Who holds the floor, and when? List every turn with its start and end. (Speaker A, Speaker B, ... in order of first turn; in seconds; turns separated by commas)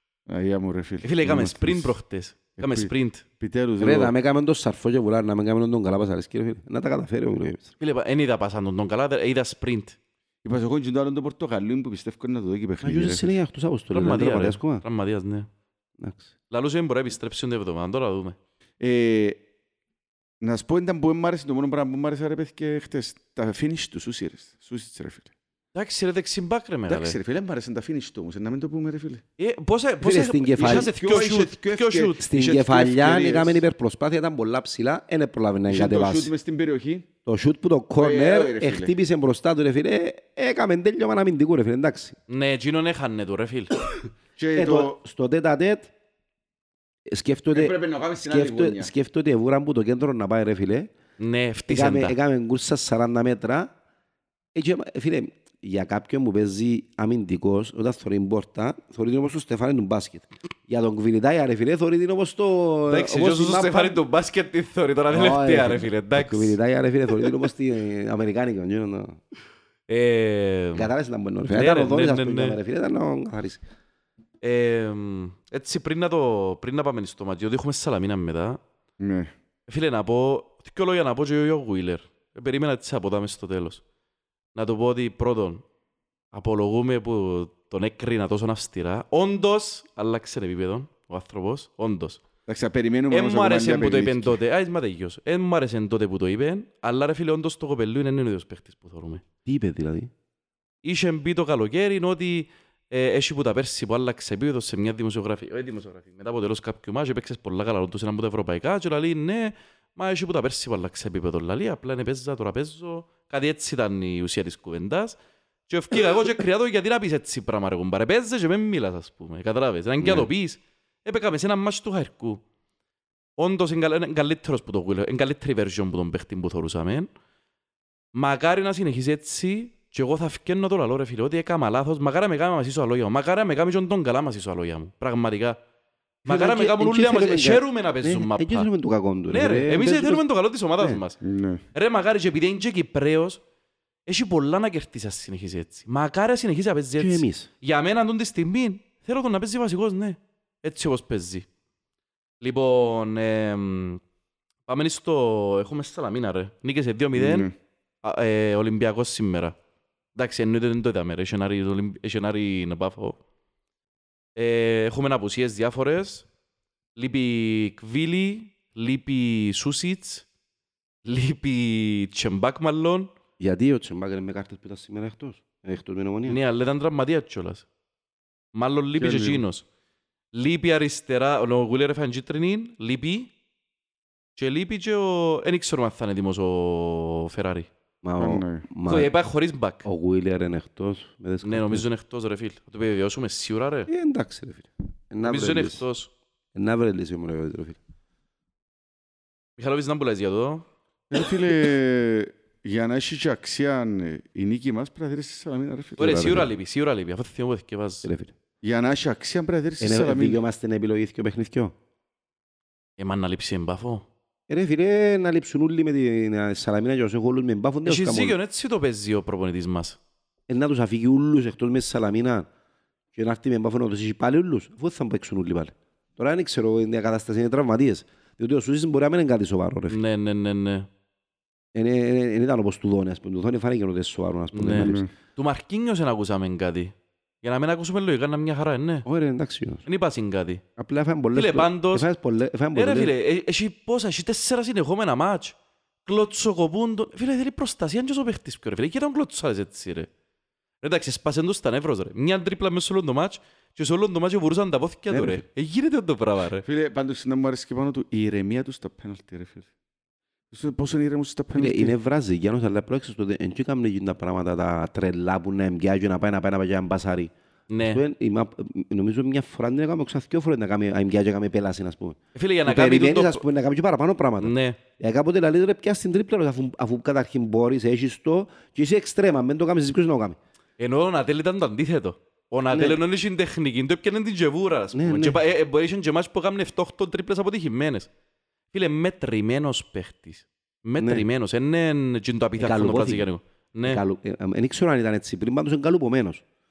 Speaker A: 0.3-1.9, Speaker B: 1.0-3.2, Speaker A: 2.6-4.1, Speaker C: 3.8-7.7, Speaker B: 7.8-10.0, Speaker A: 10.4-13.3, Speaker C: 12.8-14.8, Speaker B: 13.9-15.5, Speaker C: 16.0-16.3, Speaker B: 16.5-18.4, Speaker A: 18.8-19.4, Speaker A: 20.4-25.3, Speaker B: 25.8-27.2, Speaker A: 26.9-29.2, Speaker B: 29.4-32.2, Speaker C: 30.0-30.9, Speaker A: 30.6-33.6, Speaker C: 32.2-36.3, Speaker A: 35.7-37.1, Speaker C: 37.3-42.2, Speaker A: 38.0-38.9, Speaker B: 42.3-43.8, Speaker A: 44.4-45.0, Speaker C: 44.5-45.9, Speaker C: 47.1-50.9, Speaker A: 47.5-48.9, Speaker B: 51.2-52.2, Speaker C: 51.7-53.7, Speaker C: 54.5-64.0, Speaker B: 62.9-66.6, Speaker C: 65.1-69.2, Speaker B: 69.9-70.9, Speaker C: 70.8-73.6, Speaker B: 71.5-72.6, Speaker B: 74.4-78.6, Speaker A: 79.0-79.3, Speaker B: 79.7-83.8, Speaker B: 84.5-85.6, Speaker B: 86.3-92.2, Speaker A: 92.5-94.4, Speaker B: 93.1-99.2, Speaker C: 99.5-100.1, Speaker B: 100.8-115.2, Speaker B: 115.7-122.4, Speaker B: 123.4-127.1, Speaker B: 128.1-135.6, Speaker B: 136.2-138.7, Speaker C: 136.2-140.2, Speaker B: 139.3-141.2, Speaker A: 141.2-141.6, Speaker B: 141.7-143.4, Speaker B: 144.1-151.5, Speaker C: 147.0-147.5, Speaker B: 152.4-154.0, Speaker B: 154.7-157.5, Speaker A: 157.1-157.5, Speaker B: 158.0-159.6, Speaker B: 160.2-163.2, Speaker B: 164.4-166.3, Speaker B: 167.0-170.3, Speaker B: 171.1-173.1, Speaker C: 173.4-176.4, Speaker B: 176.3-177.7, Speaker B: 178.5-179.7, Speaker A: 179.0-179.4, Speaker B: 180.3-183.3, Speaker B: 184.4-187.7, Speaker C: 188.0-189.1, Speaker A: 188.2-188.7, Speaker B: 188.9-189.8, Speaker C: 189.8-191.8, Speaker B: 191.4-193.9, Speaker C: 193.9-195.8, Speaker B: 195.2-196.1, Speaker C: 196.5-197.8, Speaker B: 199.6-200.7, Speaker A: 201.1-206.1, Speaker B: 206.0-208.1, Speaker C: 206.0-206.5, Speaker C: 208.0-208.3, Speaker A: 208.6-210.4, Speaker C: 209.8-211.8, Speaker B: 213.0-214.1, Speaker C: 214.5-218.4, Speaker B: 217.8-220.0, Speaker C: 220.5-222.5, Speaker C: 223.1-230.0, Speaker B: 229.9-230.9, Speaker C: 231.7-235.1, Speaker B: 234.5-239.1, Speaker A: 234.8-235.1, Speaker C: 239.1-239.8, Speaker B: 239.9-240.6, Speaker C: 240.8-243.1, Speaker B: 241.3-242.1, Speaker B: 242.8-250.1, Speaker B: 250.8-256.6, Speaker C: 255.1-255.4, Speaker A: 256.6-259.7, Speaker A: 260.5-261.9, Speaker C: 261.6-280.4, Speaker B: 267.7-268.0, Speaker B: 272.4-273.5, Speaker B: 274.4-274.8, Speaker B: 280.8-288.1, Speaker C: 282.7-283.0, Speaker C: 284.9-285.4, Speaker B: 288.7-294.0, Speaker C: 291.0-291.2, Speaker C: 292.6-293.3, Speaker C: 293.8-296.4